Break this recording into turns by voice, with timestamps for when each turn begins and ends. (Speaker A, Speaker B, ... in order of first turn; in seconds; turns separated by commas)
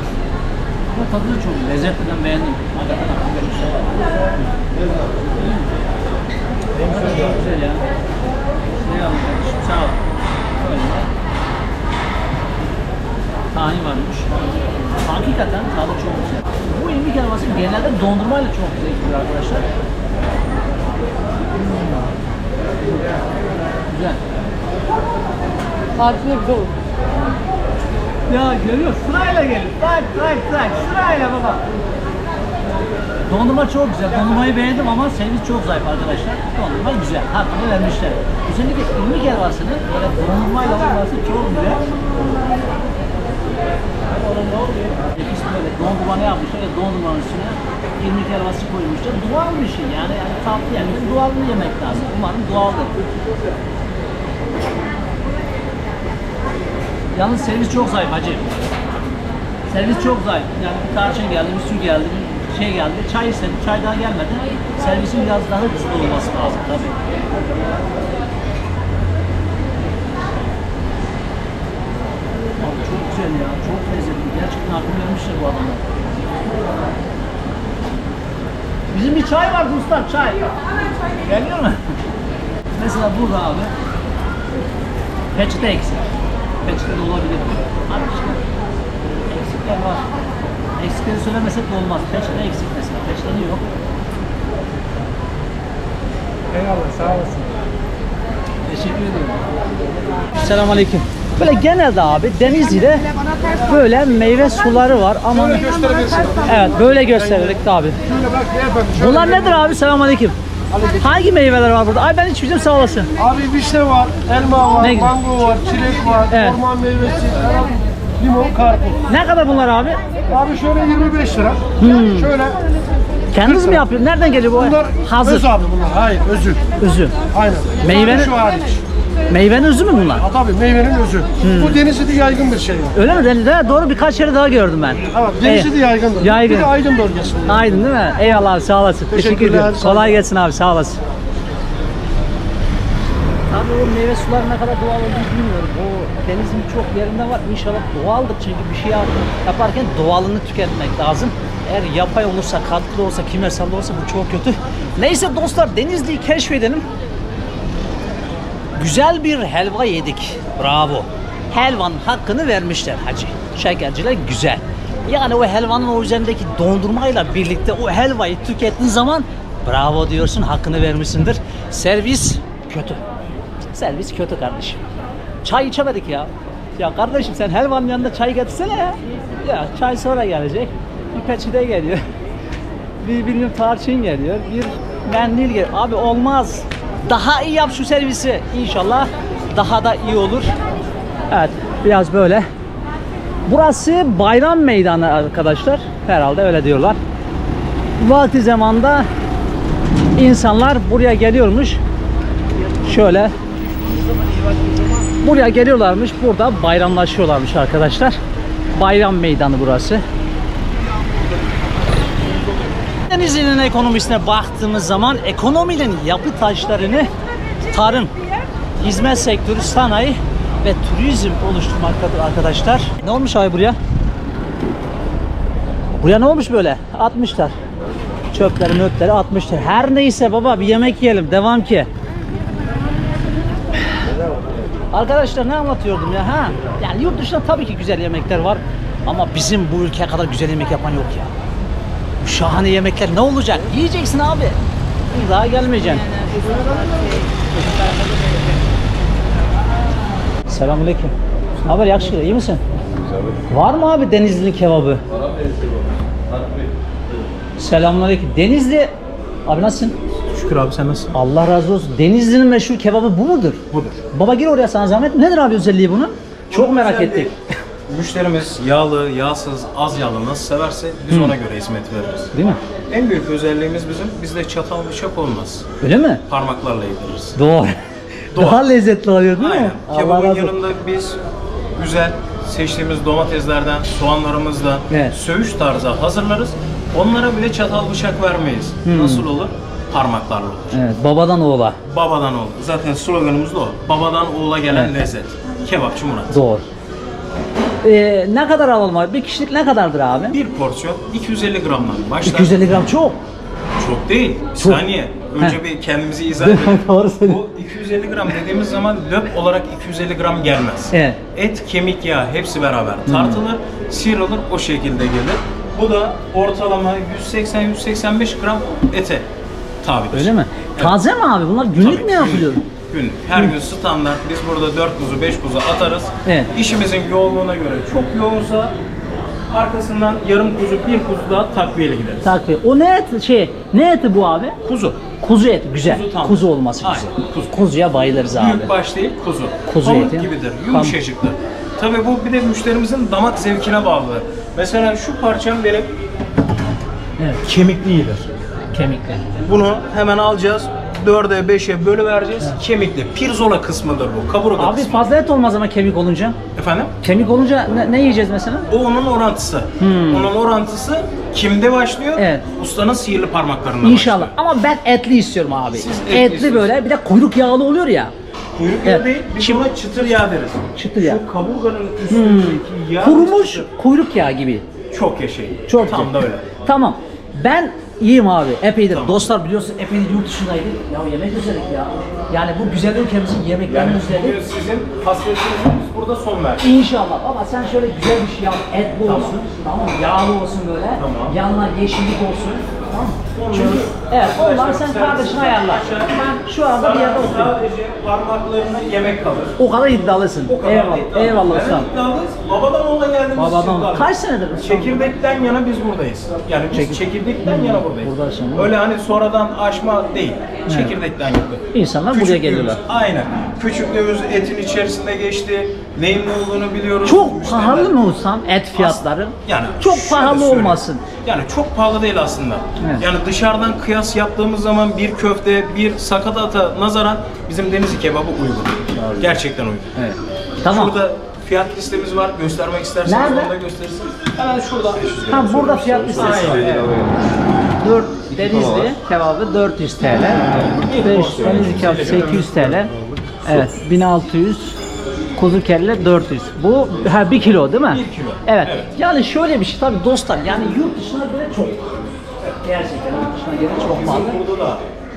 Speaker A: 0.9-4.5, Speaker A: 5.3-5.7, Speaker A: 6.8-7.8, Speaker A: 8.8-10.0, Speaker A: 10.6-11.1, Speaker A: 13.5-14.3, Speaker A: 15.0-19.6, Speaker A: 21.6-22.1, Speaker A: 23.9-24.2, Speaker A: 28.3-31.6, Speaker A: 33.2-41.8, Speaker A: 44.2-53.0, Speaker A: 57.1-58.5, Speaker A: 59.7-67.0, Speaker A: 72.6-76.1, Speaker A: 78.9-80.4, Speaker A: 81.2-81.8, Speaker A: 82.8-83.7, Speaker A: 85.3-86.1, Speaker A: 86.6-88.4, Speaker A: 89.3-90.0, Speaker A: 90.8-93.6, Speaker B: 96.5-97.5, Speaker A: 98.7-99.4, Speaker A: 100.4-103.1, Speaker A: 103.6-105.7, Speaker B: 105.3-109.6, Speaker A: 106.4-108.0, Speaker A: 109.0-110.3, Speaker B: 110.7-111.0, Speaker A: 111.0-113.1, Speaker B: 113.2-119.0, Speaker A: 114.8-115.2, Speaker A: 116.3-116.6, Speaker A: 119.1-120.0, Speaker B: 120.3-122.6, Speaker A: 121.8-122.3, Speaker A: 123.3-125.5, Speaker B: 123.4-123.8, Speaker B: 124.6-126.6, Speaker A: 126.8-127.2, Speaker B: 127.3-128.8, Speaker A: 127.8-128.3, Speaker A: 129.3-130.2, Speaker B: 130.2-132.9, Speaker A: 131.4-131.8, Speaker A: 132.9-136.7, Speaker B: 135.1-137.7, Speaker A: 137.4-141.0, Speaker B: 139.1-140.2, Speaker A: 143.5-156.8, Speaker A: 158.8-173.0, Speaker A: 173.7-174.8, Speaker A: 175.4-182.0, Speaker A: 183.0-190.5, Speaker A: 191.3-192.5, Speaker A: 193.4-197.0, Speaker A: 198.0-199.1, Speaker A: 200.2-201.8, Speaker A: 202.8-203.3, Speaker A: 205.2-208.2, Speaker A: 208.7-210.0, Speaker A: 213.1-217.1, Speaker A: 217.7-218.1, Speaker A: 218.8-223.8, Speaker A: 226.0-227.6, Speaker A: 228.3-231.9, Speaker A: 234.9-241.3, Speaker A: 242.2-244.6, Speaker A: 245.1-246.3, Speaker A: 250.5-252.6, Speaker A: 253.5-255.0, Speaker A: 257.6-260.0, Speaker C: 260.3-261.1, Speaker A: 261.1-267.3, Speaker C: 263.7-264.0, Speaker C: 266.5-267.3, Speaker C: 267.9-272.3, Speaker A: 271.1-271.3, Speaker A: 272.3-272.6, Speaker C: 272.9-275.7, Speaker A: 275.8-276.2, Speaker C: 276.3-277.4, Speaker A: 277.4-280.5, Speaker C: 278.3-278.6, Speaker C: 279.4-281.2, Speaker C: 281.8-290.8, Speaker A: 284.9-285.1, Speaker A: 288.8-289.3, Speaker A: 290.7-291.8, Speaker C: 291.8-296.3, Speaker A: 296.3-296.6, Speaker A: 297.8-300.4, Speaker C: 300.3-302.8, Speaker A: 302.2-303.2, Speaker C: 303.8-319.3, Speaker A: 306.4-307.4, Speaker A: 310.9-311.2, Speaker A: 313.1-313.4, Speaker C: 319.8-321.0, Speaker A: 320.1-322.6, Speaker C: 321.8-328.8, Speaker A: 326.2-326.5, Speaker C: 329.5-332.2, Speaker A: 332.2-334.6, Speaker C: 334.6-335.0, Speaker A: 335.2-338.7, Speaker C: 335.8-337.6, Speaker C: 338.2-345.9, Speaker A: 339.7-340.9, Speaker C: 347.4-348.3, Speaker A: 348.7-349.3, Speaker C: 349.4-355.1, Speaker A: 354.6-356.4, Speaker C: 356.5-356.9, Speaker A: 357.0-358.7, Speaker C: 358.7-364.3, Speaker A: 359.8-360.3, Speaker A: 362.1-362.4, Speaker A: 363.8-368.1, Speaker C: 365.7-366.7, Speaker C: 368.5-373.6, Speaker A: 368.8-369.6, Speaker A: 370.7-371.2, Speaker A: 372.1-374.6, Speaker C: 374.9-376.5, Speaker A: 375.7-376.1, Speaker A: 376.6-384.4, Speaker C: 378.9-379.3, Speaker C: 383.7-386.6, Speaker A: 386.6-397.6, Speaker C: 389.0-389.4, Speaker C: 391.0-391.4, Speaker C: 393.3-399.6, Speaker A: 399.6-401.9, Speaker C: 400.3-418.0, Speaker A: 403.4-405.0, Speaker A: 406.7-408.7, Speaker A: 410.7-410.9, Speaker A: 411.7-412.8, Speaker A: 417.0-421.0, Speaker C: 418.7-429.9, Speaker A: 422.8-423.0, Speaker A: 429.9-430.9, Speaker C: 430.6-435.3, Speaker A: 433.1-433.5, Speaker A: 435.3-436.9, Speaker B: 435.6-437.0, Speaker C: 436.1-436.9, Speaker A: 437.8-444.8, Speaker C: 440.8-442.7, Speaker A: 445.4-451.9, Speaker C: 447.9-448.9, Speaker A: 452.6-454.4, Speaker C: 453.8-454.8